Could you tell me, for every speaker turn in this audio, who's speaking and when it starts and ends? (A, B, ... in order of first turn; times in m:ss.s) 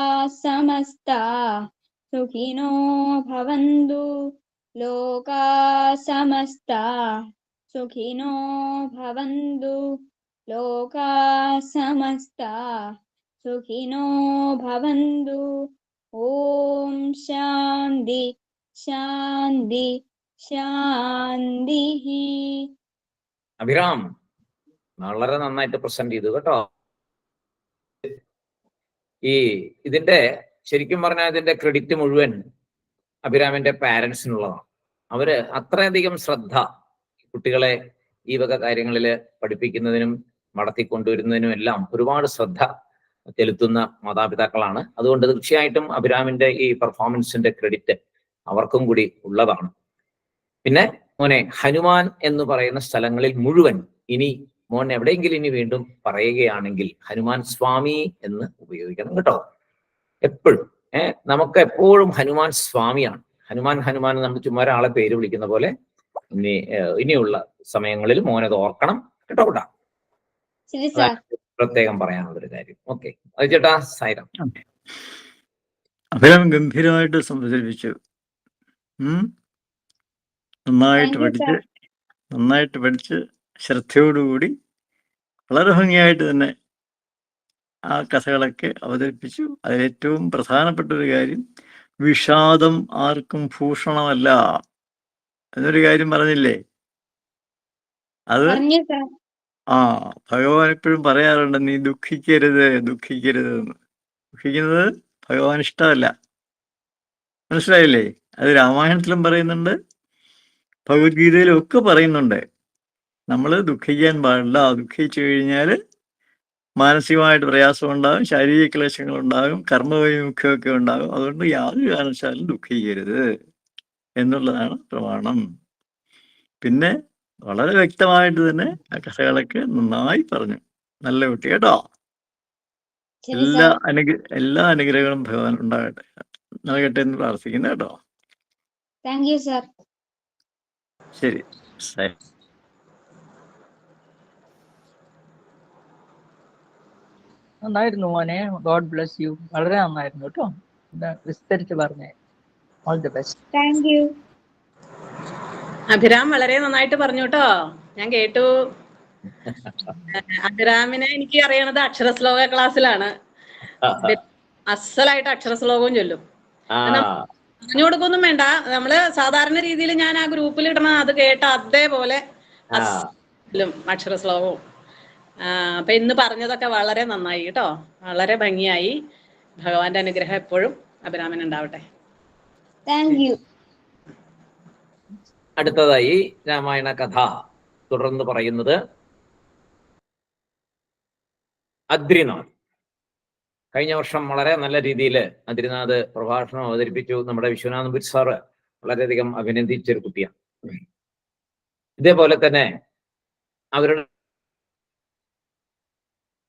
0:00.3-0:01.2 A
0:02.1-0:02.7 A
0:03.3-0:04.0 A
0:04.8-0:06.8 A
0:07.7-0:09.8 A
0:10.5-0:12.5 A
0:13.4-0:14.1 A
0:14.6-0:15.4 A
0:16.2-0:18.2 A
0:18.8-0:19.9 A
0:20.4-0:22.6 A
0:23.6-0:24.0 B
0:25.0-0:26.6 B
0:29.3-0:32.4 B
0:33.3-0:36.6 B
0:37.3-0:37.7 B
0:38.3-0:42.7 B
0:43.4-0:48.0 B
0:48.5-0:49.7 B
0:50.6-0:59.4 B
1:00.3-1:05.7 B
1:06.4-1:09.7 B
1:10.7-1:11.2 A
1:11.0-1:14.3 B
1:16.2-1:18.0 C
1:20.7-1:21.5 C
1:21.0-1:21.5 A
1:22.3-1:24.5 C
1:25.5-1:26.5 C
1:27.9-1:31.4 C
1:32.0-1:34.3 C
1:35.6-1:36.6 C
1:38.3-1:38.6 C
1:38.5-1:39.0 A
1:39.7-1:43.8 C
1:44.4-1:46.1 C
1:47.5-1:49.8 C
1:50.9-1:52.4 C
1:53.3-1:55.8 C
1:56.8-2:03.2 C
2:04.2-2:05.4 C
2:06.6-2:06.9 C
2:07.5-2:11.8 C
2:13.2-2:13.7 A
2:13.3-2:16.1 C
2:16.7-2:18.0 C
2:19.0-2:19.7 A
2:21.2-2:22.2 C
2:27.6-2:32.1 D
2:32.9-2:33.4 D
2:33.5-2:34.1 A
2:35.9-2:37.5 E
2:38.0-2:38.5 E
2:40.1-2:43.1 E
2:43.8-2:44.1 B
2:44.0-2:46.2 E
2:46.8-2:47.1 B
2:47.6-2:52.2 E
2:52.8-2:53.0 B
2:53.5-2:54.6 E
2:55.5-2:58.9 E
2:59.6-3:01.8 E
3:02.9-3:03.4 A
3:05.6-3:07.3 B
3:07.9-3:08.8 B
3:11.9-3:12.5 B
3:13.7-3:20.3 B
3:22.0-3:22.7 B
3:23.8-3:24.0 B